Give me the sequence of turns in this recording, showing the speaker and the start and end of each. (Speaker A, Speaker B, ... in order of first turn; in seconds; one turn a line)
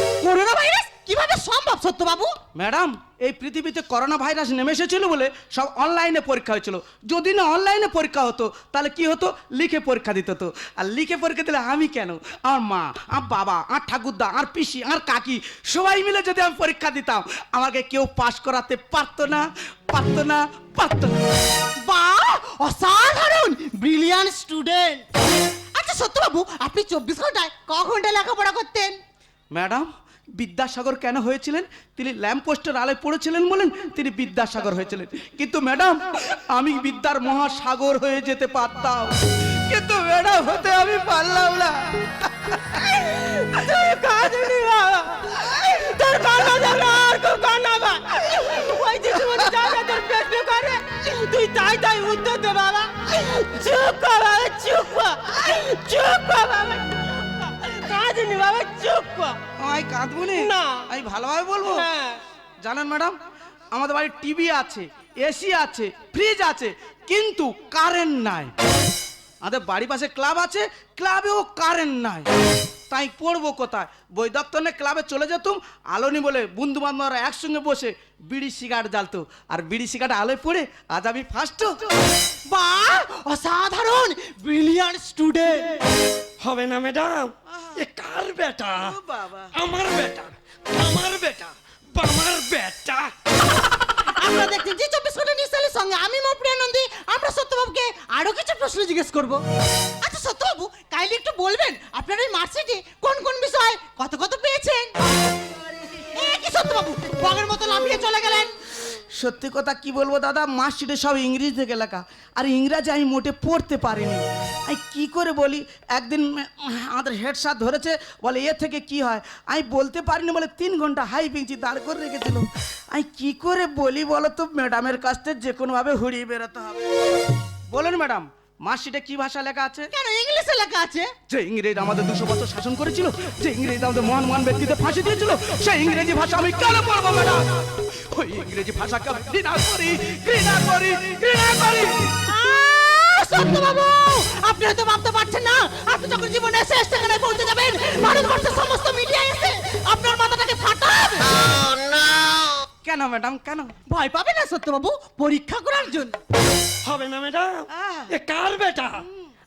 Speaker A: 0.2-2.3
Speaker B: 2.5-21.2
Speaker A: 21.8-25.1
Speaker A: 25.7-29.0
Speaker B: 29.5-42.8
Speaker C: 42.9-59.4
Speaker B: 59.6-61.9
Speaker C: 60.3-60.8
Speaker C: 61.7-62.2
Speaker B: 62.6-63.2
Speaker B: 63.7-68.5
Speaker B: 69.4-72.3
Speaker B: 72.9-81.8
Speaker A: 82.5-85.7
Speaker D: 86.4-88.9
Speaker B: 88.8-89.5
Speaker D: 89.5-93.1
Speaker A: 94.2-99.4
Speaker A: 100.0-104.9
Speaker A: 106.1-108.5
Speaker B: 109.1-127.0
Speaker B: 127.7-129.9
Speaker A: 129.9-131.1
Speaker B: 131.3-142.1
Speaker A: 142.2-151.4
Speaker B: 152.8-153.7
Speaker A: 153.9-156.2
Speaker D: 156.8-159.0
Speaker B: 157.7-158.1